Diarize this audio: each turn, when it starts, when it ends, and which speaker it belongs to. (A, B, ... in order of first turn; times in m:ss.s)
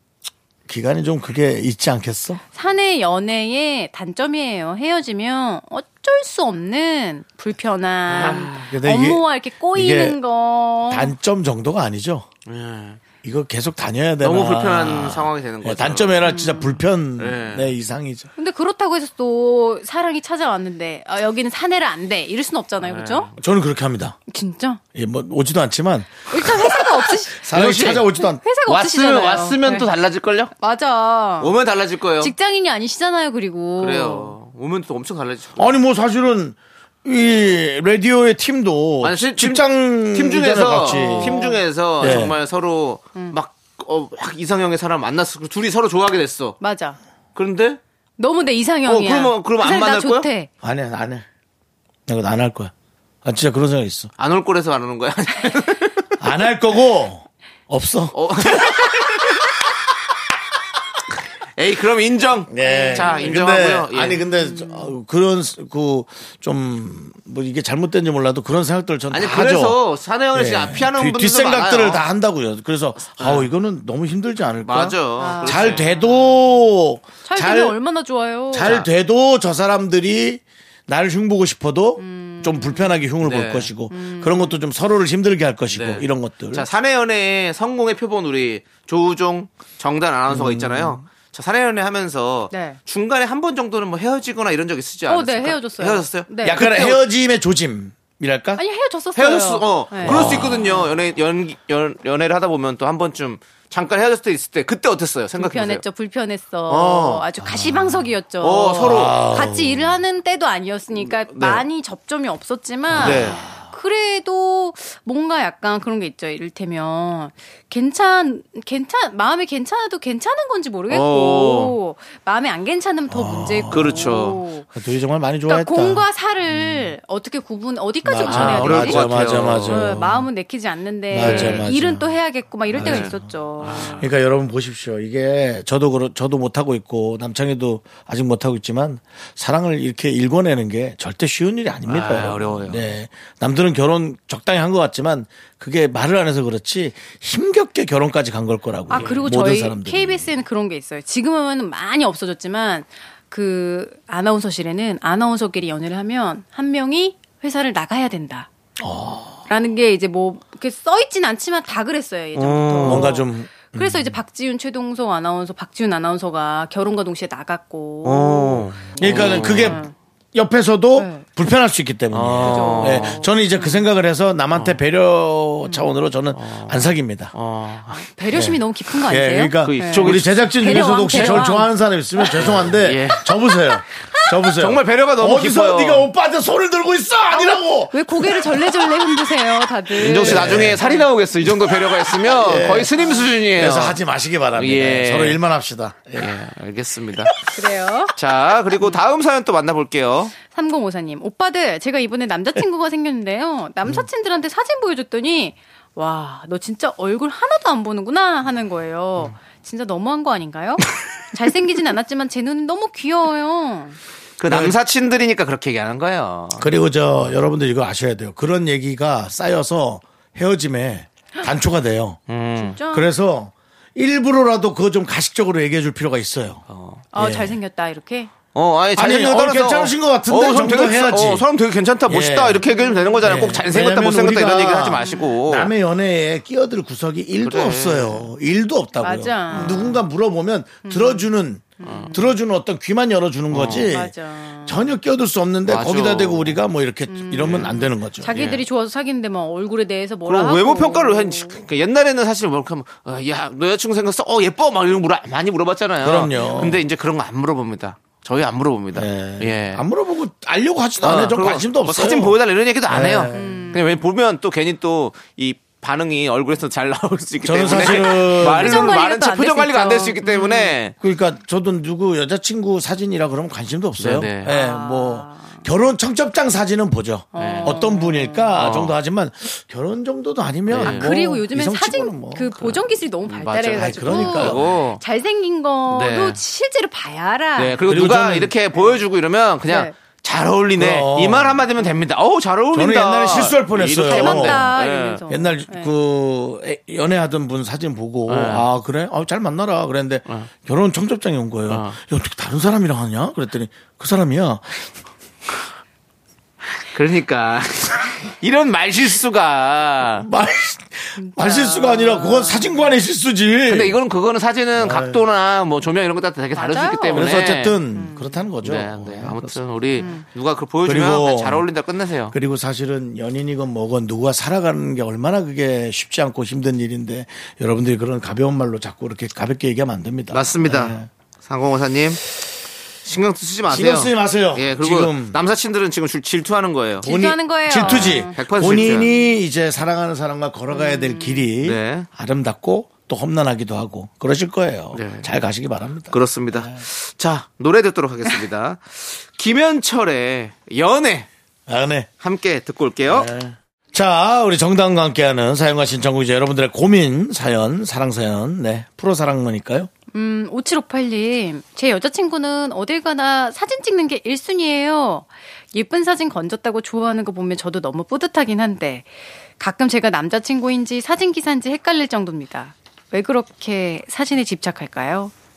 0:00.7-0:02.4 A
0:02.5-0:11.1 B
0:08.1-0:08.7 C
0:08.6-0:10.2 A
0:10.9-0:12.3 A
0:12.5-0:13.0 C
0:13.2-0:18.3 A
0:14.2-0:16.4 C
0:16.2-0:16.8 B
0:17.2-0:17.7 C
0:18.4-0:23.3 B
0:22.8-0:23.3 C
0:23.4-0:24.2 A
0:24.3-0:24.8 B
0:24.9-0:26.8 A
0:26.3-0:27.5 B
0:27.4-0:28.4 A
0:27.4-0:28.1 C
0:28.3-0:29.9 B
0:28.7-0:30.5 C
0:30.6-0:31.6 B
0:31.4-0:32.3 C
0:32.2-0:34.4 B
0:33.8-0:35.7 C
0:35.6-0:41.4 A
0:39.0-0:46.6 C
0:40.8-0:42.3 B
0:42.0-0:42.4 A
0:46.6-0:47.0 B
0:47.4-0:47.8 C
0:48.2-0:50.5 B
0:48.9-0:50.3 C
0:50.6-0:51.2 A
0:52.1-0:52.7 A
0:53.2-0:54.1 A
0:54.2-0:56.1 C
0:56.2-0:59.0 A
0:58.1-0:59.3 C
1:01.6-1:04.2 C
1:02.5-1:09.8 A
1:02.6-1:03.4 B
1:04.2-1:04.9 B
1:09.1-1:12.0 C
1:10.3-1:17.8 A
1:13.0-1:13.5 C
1:14.6-1:15.9 C
1:15.2-1:16.4 B
1:17.2-1:18.8 B
1:18.5-1:26.7 A
1:18.6-1:18.9 C
1:22.0-1:23.0 B
1:23.2-1:23.7 C
1:23.9-1:24.6 B
1:25.7-1:37.0 C
1:30.3-1:31.0 A
1:32.5-1:32.8 B
1:35.1-1:36.7 B
1:36.4-1:38.6 A
1:38.6-1:40.4 B
1:39.2-1:45.8 C
1:40.0-1:40.9 A
1:45.4-2:04.7 B
1:46.7-1:47.2 C
1:47.4-1:48.1 A
1:48.4-1:49.2 C
1:48.8-1:50.0 A
1:51.0-1:51.6 C
1:52.9-1:53.6 A
1:53.0-1:53.4 C
2:00.9-2:01.8 C
2:03.1-2:03.9 A
2:03.7-2:04.4 C
2:04.8-2:06.9 A
2:05.5-2:14.0 B
2:08.0-2:10.3 A
2:08.2-2:10.0 C
2:11.1-2:12.1 A
2:11.2-2:11.6 C
2:12.7-2:13.3 A
2:12.8-2:14.1 C
2:14.0-2:30.3 A
2:21.9-2:22.9 C
2:28.9-2:38.5 B
2:28.9-2:29.2 C
2:38.8-2:39.4 A
2:39.5-2:49.9 B
2:42.4-2:43.2 C
2:42.8-2:44.2 A
2:48.0-2:49.8 C
2:49.0-2:49.8 A
2:50.3-2:57.3 A
2:51.0-2:51.3 B
2:52.1-2:53.2 C
2:52.4-2:53.8 B
2:56.3-2:58.1 C
2:57.9-3:02.4 B
2:58.3-3:08.9 A
2:59.6-3:01.5 C
3:02.4-3:03.3 C
3:04.5-3:06.1 C
3:07.3-3:11.1 B
3:10.0-3:14.0 C
3:10.2-3:10.8 A
3:12.2-3:12.9 A
3:12.9-3:13.3 B
3:13.6-3:16.3 A
3:14.6-3:15.4 C
3:16.2-3:17.4 C
3:17.5-3:18.1 B
3:18.1-3:20.4 C
3:20.4-3:34.0 B
3:34.4-3:36.7 C
3:34.5-3:34.8 A
3:36.6-3:42.2 A
3:42.3-3:42.8 C
3:42.6-3:43.1 B
3:42.9-3:46.6 A
3:46.7-3:47.0 C
3:47.1-3:48.3 B
3:47.2-3:47.6 A
3:48.5-3:55.7 C
3:49.0-3:51.5 A
3:52.1-3:52.6 A
3:52.6-3:53.5 B
3:53.2-4:08.4 A
3:55.0-3:55.3 B
3:57.4-3:58.3 C
3:59.0-4:00.0 B
3:59.5-3:59.9 C
4:00.8-4:02.4 B
4:01.8-4:02.1 C
4:03.5-4:03.9 C
4:03.9-4:04.9 B
4:05.7-4:06.6 C
4:07.1-4:11.6 B
4:07.4-4:08.6 C
4:10.3-4:19.8 C
4:16.0-4:16.8 A
4:19.0-4:23.7 A
4:21.0-4:31.0 C
4:23.3-4:23.9 B
4:27.4-4:28.9 A
4:28.2-4:30.8 B
4:31.0-4:42.8 A
4:34.0-4:34.6 C
4:34.5-4:35.6 B
4:37.3-4:38.6 B
4:37.4-4:37.8 C
4:38.6-4:39.0 C
4:40.7-4:41.1 C
4:40.8-4:47.8 B
4:42.6-4:45.0 C
4:43.8-4:44.7 A
4:45.9-4:46.4 C
4:47.6-4:55.2 C
4:47.9-4:48.5 A
4:48.8-4:49.0 B
4:49.6-4:50.0 B
4:50.8-4:51.6 A
4:52.7-4:54.7 A
4:54.1-4:55.9 B
4:55.3-5:04.9 A
4:58.3-4:58.7 C
5:01.7-5:02.0 C
5:06.9-5:10.3 C
5:10.2-5:14.0 A
5:11.2-5:12.8 B
5:13.7-5:17.8 C
5:14.8-5:15.2 A
5:16.6-5:18.4 B
5:17.1-5:19.6 A
5:18.6-5:22.4 C
5:20.0-5:20.3 B
5:20.8-5:21.7 A
5:22.3-5:31.1 A
5:30.3-5:32.2 C
5:33.0-5:37.1 C
5:33.7-5:35.4 A
5:37.0-5:39.2 B
5:37.0-5:46.8 A
5:37.8-5:39.1 C
5:40.7-5:41.5 B
5:41.6-5:42.1 C
5:44.9-5:45.3 C
5:46.1-5:51.3 C
5:51.7-5:52.1 A
5:52.2-5:53.3 C
5:53.1-5:59.9 A
6:00.1-6:15.3 B